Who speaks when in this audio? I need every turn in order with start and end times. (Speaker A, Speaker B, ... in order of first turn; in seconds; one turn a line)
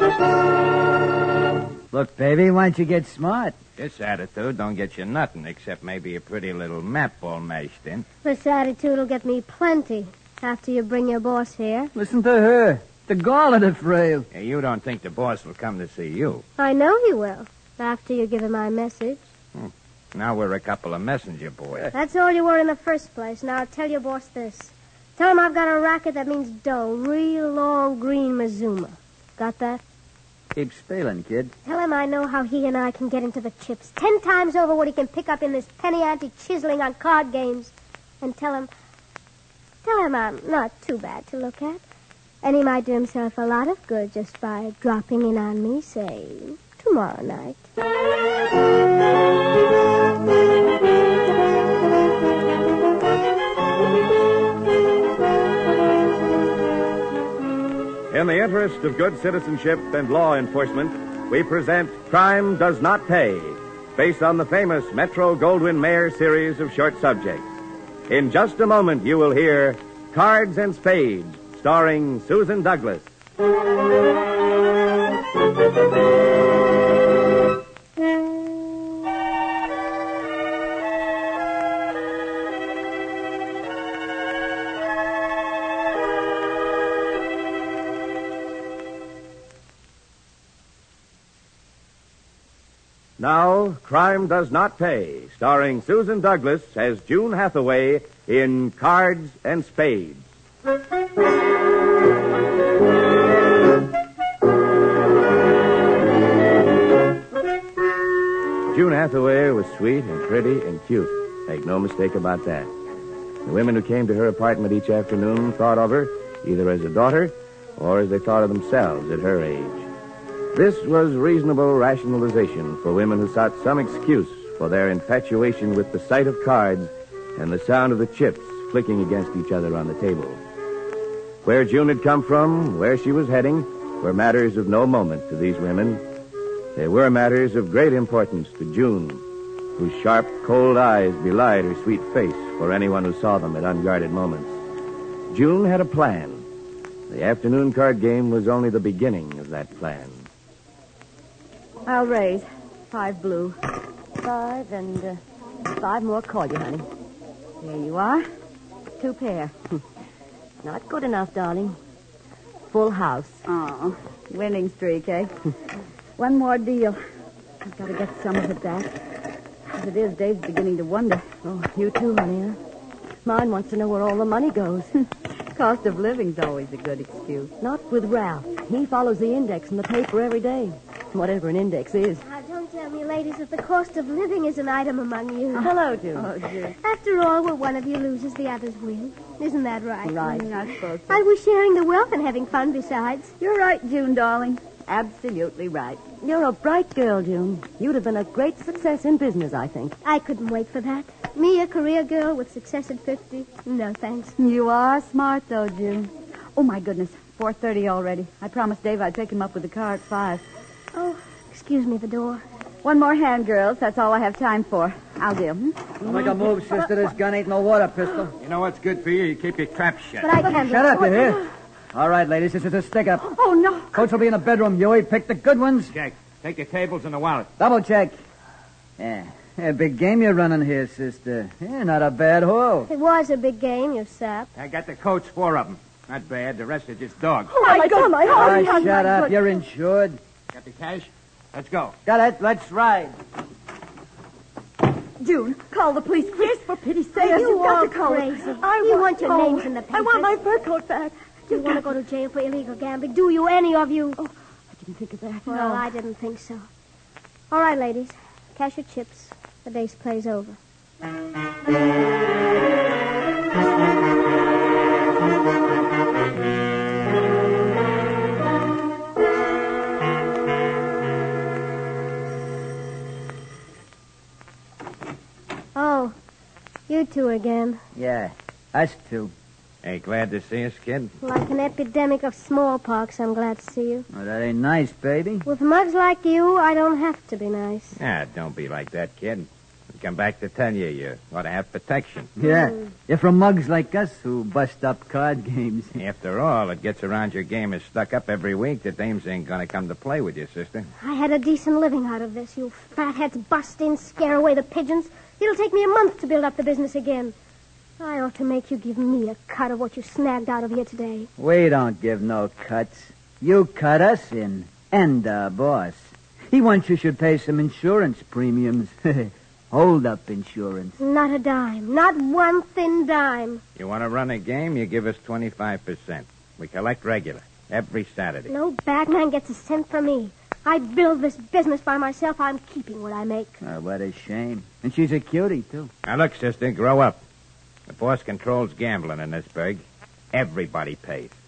Speaker A: 1.9-3.6
Speaker B: 3.8-8.1
Speaker C: 8.2-11.9
Speaker A: 11.9-14.3
Speaker B: 14.3-16.4
Speaker C: 16.6-19.2
Speaker B: 19.6-21.9
Speaker C: 21.9-29.8
Speaker A: 30.5-31.5
Speaker C: 31.6-38.7
Speaker C: 39.8-41.8
Speaker C: 42.4-47.7
Speaker D: 58.1-67.5
Speaker D: 68.1-73.1
Speaker D: 93.2-100.2
Speaker D: 108.7-112.7
Speaker D: 113.4-119.9
Speaker D: 120.5-130.4
Speaker D: 131.4-136.0
Speaker D: 136.8-139.2
Speaker D: 139.8-144.5
Speaker D: 145.3-146.4
Speaker D: 147.1-150.2
Speaker E: 151.8-153.6
Speaker F: 154.2-155.2
Speaker F: 155.8-156.8
Speaker E: 157.6-158.2
Speaker E: 159.0-159.5
Speaker F: 160.6-161.8
Speaker F: 162.7-163.4
Speaker E: 163.5-165.3
Speaker E: 166.2-167.0
Speaker E: 167.6-169.0
Speaker E: 169.7-171.3
Speaker F: 171.4-172.6
Speaker F: 173.2-174.9
Speaker E: 175.5-177.5
Speaker F: 177.6-182.2
Speaker C: 182.2-185.7
Speaker E: 185.6-186.7
Speaker F: 185.6-186.3
Speaker C: 186.8-190.4
Speaker E: 190.1-191.2
Speaker F: 190.1-190.5
Speaker C: 191.1-193.3
Speaker E: 193.4-196.0
Speaker F: 196.2-199.9
Speaker C: 200.0-204.3
Speaker E: 204.4-210.4
Speaker C: 210.9-212.4
Speaker E: 212.8-216.3
Speaker A: 216.0-218.3
Speaker B: 218.4-220.3
Speaker C: 220.2-221.1
Speaker E: 220.5-221.2
Speaker A: 220.5-223.3
Speaker E: 223.2-224.0
Speaker A: 223.9-225.9
Speaker B: 225.9-227.5
Speaker A: 227.6-228.2
Speaker A: 229.0-232.9
Speaker C: 232.9-234.5
Speaker B: 234.5-237.6
Speaker F: 237.5-239.3
Speaker E: 237.6-239.3
Speaker A: 238.3-240.2
Speaker B: 240.5-241.9
Speaker A: 242.1-243.2
Speaker E: 245.2-248.5
Speaker F: 246.4-246.8
Speaker C: 247.2-250.4
Speaker F: 248.6-251.8
Speaker C: 251.5-254.2
Speaker F: 254.2-255.8
Speaker C: 255.4-256.6
Speaker C: 257.5-260.6
Speaker C: 275.7-276.1
Speaker C: 276.9-277.8
Speaker A: 277.9-279.3
Speaker B: 279.8-281.1
Speaker C: 281.2-284.1
Speaker A: 284.1-285.4
Speaker C: 285.4-288.0
Speaker B: 288.0-292.3
Speaker A: 292.4-295.9
Speaker C: 292.4-292.9
Speaker B: 296.0-300.9
Speaker C: 301.0-307.3
Speaker C: 308.0-311.3
Speaker A: 311.4-321.0
Speaker C: 321.0-323.6
Speaker B: 323.8-328.5
Speaker C: 328.5-333.6
Speaker A: 333.6-335.9
Speaker B: 336.0-337.2
Speaker B: 337.9-341.3